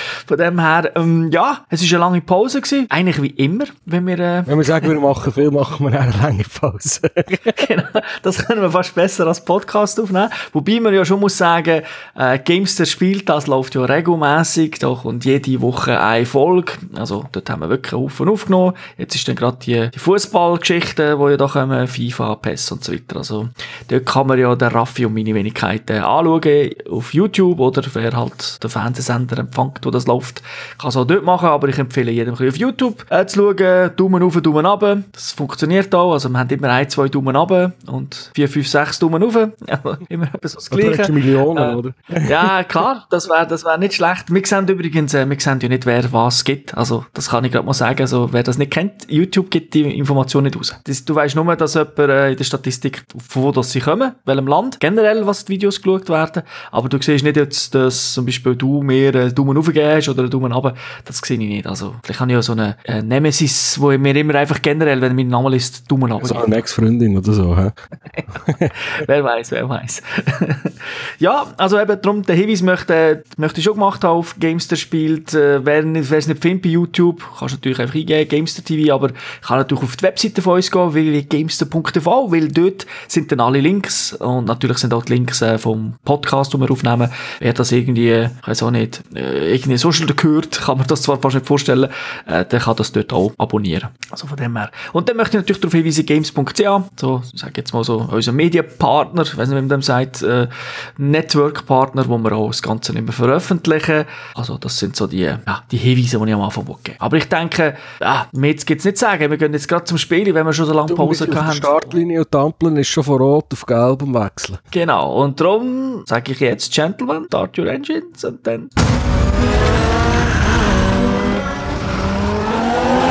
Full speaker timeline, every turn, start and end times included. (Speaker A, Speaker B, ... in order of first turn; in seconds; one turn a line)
Speaker A: 0.3-4.9
Speaker B: 4.5-7.6
Speaker A: 7.5-66.7
Speaker B: 40.7-42.5
Speaker B: 66.2-67.7
Speaker B: 68.5-68.7
Speaker A: 68.7-112.0
Speaker B: 110.9-114.6
Speaker A: 114.7-118.7